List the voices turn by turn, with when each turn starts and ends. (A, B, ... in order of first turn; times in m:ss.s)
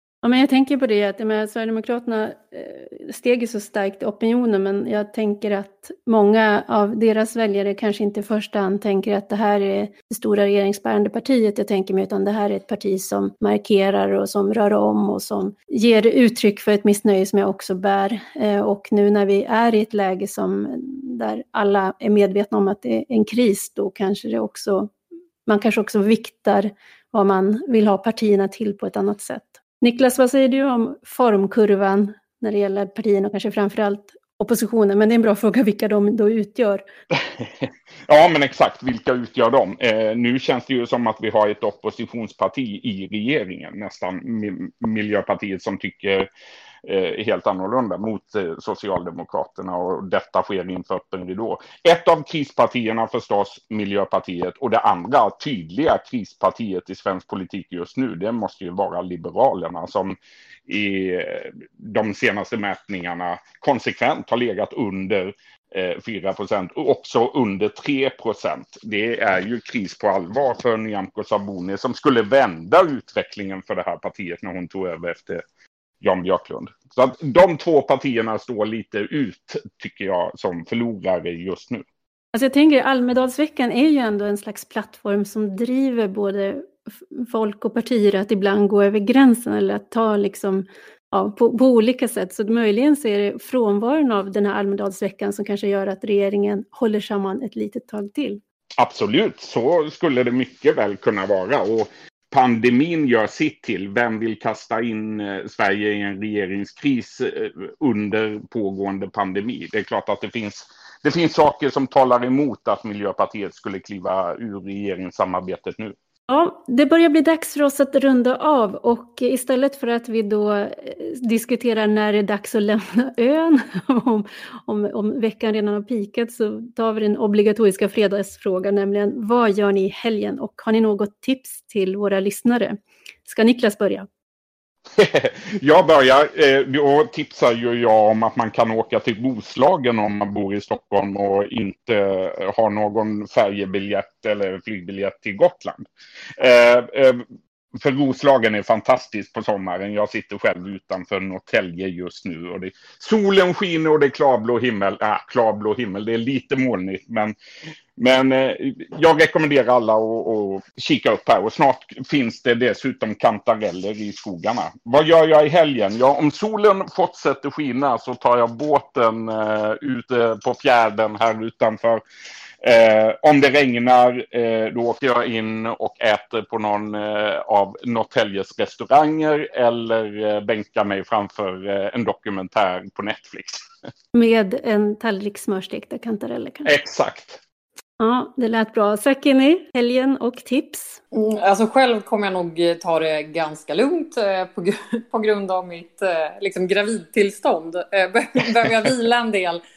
0:00.2-0:24.9 A
0:25.4-0:36.8 A
0:37.2-0:46.3 B
0:46.8-1:15.4 B
1:16.0-1:21.8 B
1:22.3-1:38.4 A
1:38.8-1:55.9 B
1:56.3-2:14.1 A
2:15.0-2:25.8 B
2:26.4-2:27.2 B
2:27.8-2:37.3 B
2:38.0-2:52.0 B
2:52.6-3:03.6 B
3:04.1-3:06.7 A
3:06.6-3:07.4 B
3:08.0-3:11.0 A
3:11.1-3:19.6 C